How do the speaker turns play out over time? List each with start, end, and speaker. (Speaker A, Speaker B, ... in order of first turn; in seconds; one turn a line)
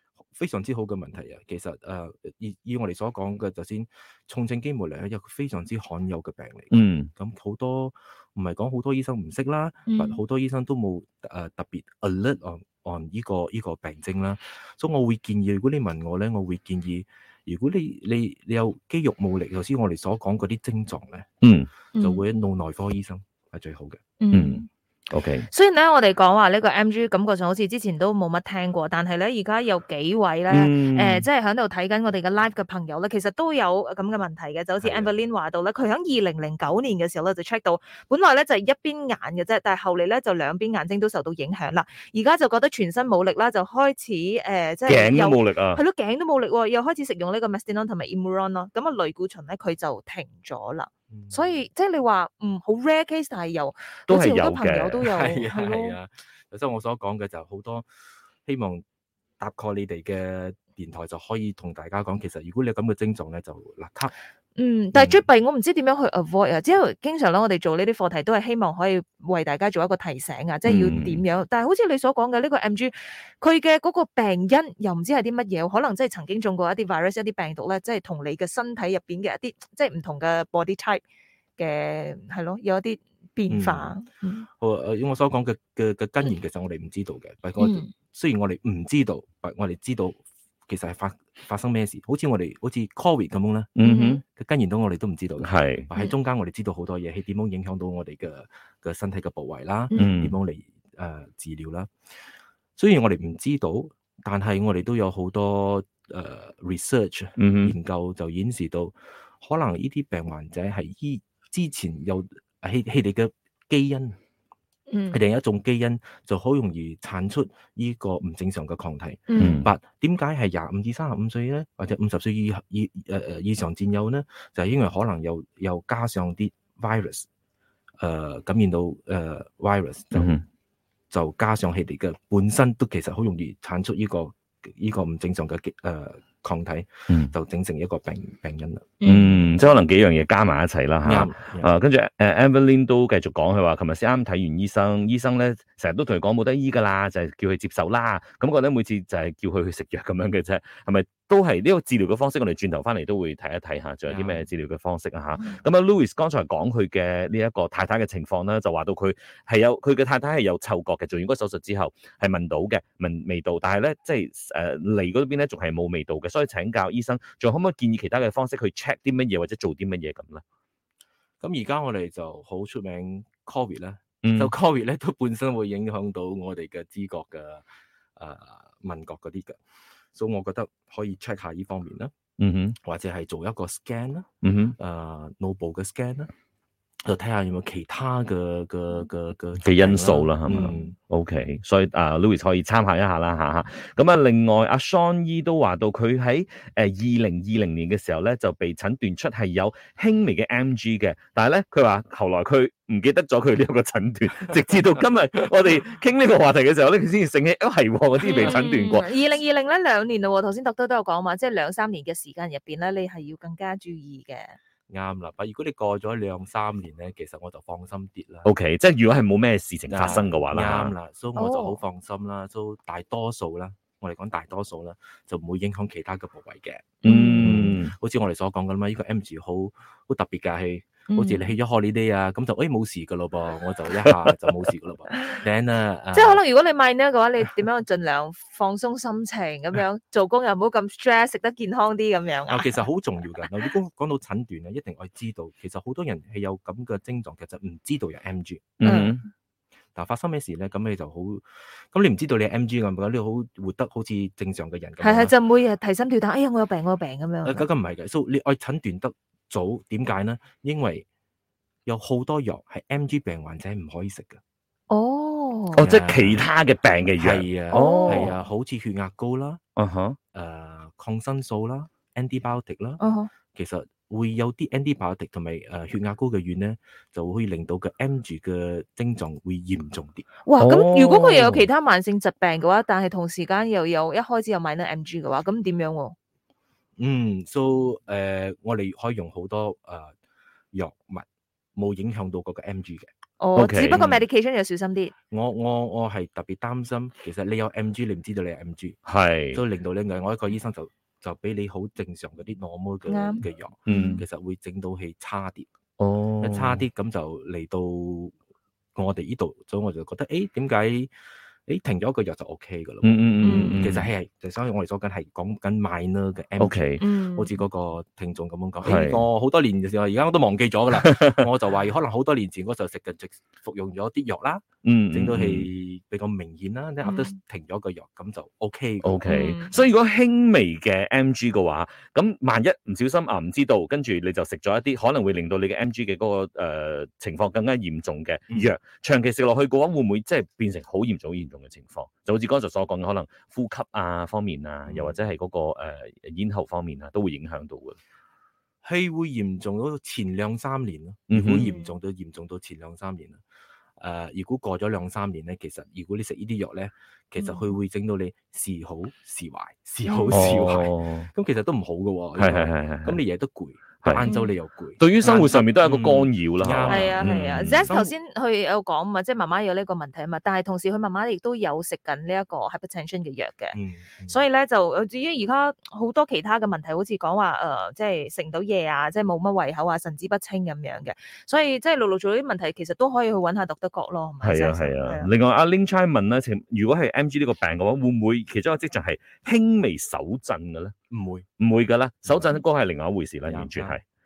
Speaker A: 0.3-21.3
Speaker B: 6.7-7.1
Speaker C: 9.9-10.2
Speaker B: 21.4-21.7
Speaker C: 21.9-22.2
Speaker A: 22.0-24.0
Speaker C: 24.2-24.7
Speaker B: 24.3-25.5
Speaker C: 25.5-56.0
Speaker B: 30.5-31.3
Speaker A: 34.8-35.1
Speaker B: 44.9-45.8
Speaker A: 51.1-51.5
Speaker B: 54.1-55.1
Speaker A: 55.1-57.9
Speaker A: 58.4-58.8
Speaker A: 59.4-64.1
Speaker C: 64.6-81.0
Speaker A: 64.9-65.2
Speaker B: 70.6-71.2
Speaker C: 81.6-84.5
Speaker A: 83.5-83.9
Speaker A: 84.6-93.7
Speaker C: 87.6-87.9
Speaker B: 93.8-94.2
Speaker C: 93.8-94.2
Speaker A: 94.3-101.9
Speaker B: 95.4-95.9
Speaker B: 99.9-100.3
Speaker A: 102.8-114.2
Speaker B: 107.4-107.8
Speaker C: 114.9-115.2
Speaker A: 115.1-127.3
Speaker C: 119.3-119.6
Speaker B: 119.3-119.7
Speaker A: 128.0-130.4
Speaker B: 130.1-130.4
Speaker A: 131.1-138.9
Speaker C: 139.0-139.6
Speaker B: 139.0-170.4
Speaker A: 141.0-141.7
Speaker A: 154.1-154.4
Speaker A: 171.4-177.6
Speaker B: 174.2-174.5
Speaker A: 178.2-179.6
Speaker A: 180.1-182.1
Speaker B: 182.4-182.8
Speaker A: 182.8-186.3
Speaker B: 184.4-184.8
Speaker A: 187.0-190.9
Speaker B: 189.6-209.1
Speaker C: 208.2-214.6
Speaker A: 214.9-218.5
Speaker B: 218.4-220.9
Speaker A: 219.9-236.4
Speaker C: 221.3-221.8
Speaker C: 227.0-227.8
Speaker B: 227.0-227.9
Speaker C: 231.1-231.5
Speaker B: 234.0-234.3
Speaker C: 235.1-235.4
Speaker C: 236.1-242.9
Speaker A: 242.5-248.8
Speaker C: 243.4-243.7
Speaker B: 248.8-249.2
Speaker C: 248.8-249.2
Speaker A: 249.9-255.3
Speaker C: 255.0-257.6
Speaker A: 257.4-261.1
Speaker A: 261.9-264.4
Speaker C: 264.9-265.8
Speaker B: 265.7-268.3
Speaker A: 265.8-266.4
Speaker A: 267.2-269.6
Speaker C: 267.7-268.3
Speaker B: 269.8-270.2
Speaker A: 270.3-273.0
Speaker C: 273.0-273.3
Speaker A: 273.5-280.2
Speaker C: 280.4-286.1
Speaker B: 280.6-281.7
Speaker A: 287.0-290.1
Speaker A: 290.7-293.1
Speaker C: 293.4-295.1
Speaker B: 293.6-294.0
Speaker A: 293.9-294.2
Speaker A: 295.3-299.0
Speaker B: 299.1-299.6
Speaker A: 299.5-305.7
Speaker C: 303.1-304.2
Speaker B: 303.9-304.2
Speaker B: 306.0-306.8
Speaker A: 306.4-308.3
Speaker A: 308.9-311.1
Speaker A: 311.7-329.5
Speaker B: 313.0-314.1
Speaker C: 313.4-313.8
Speaker B: 316.6-317.0
Speaker C: 317.0-317.6
Speaker B: 318.8-319.2
Speaker B: 321.0-321.4
Speaker B: 324.8-325.7
Speaker C: 327.0-327.3
Speaker B: 329.0-348.0
Speaker C: 329.3-329.8
Speaker A: 344.9-345.2
Speaker A: 348.8-353.4
Speaker B: 351.3-351.6
Speaker C: 351.5-351.9
Speaker A: 354.0-368.1
Speaker C: 357.4-357.7
Speaker C: 360.1-360.5
Speaker B: 360.3-361.3
Speaker B: 362.4-363.2
Speaker B: 364.0-364.3
Speaker C: 364.2-364.5
Speaker B: 365.0-367.9
Speaker C: 366.9-373.8
Speaker A: 373.7-374.4
Speaker C: 374.3-385.3
Speaker B: 384.4-390.9
Speaker A: 391.1-391.4
Speaker B: 391.6-394.0
Speaker A: 392.3-392.6
Speaker A: 393.4-394.0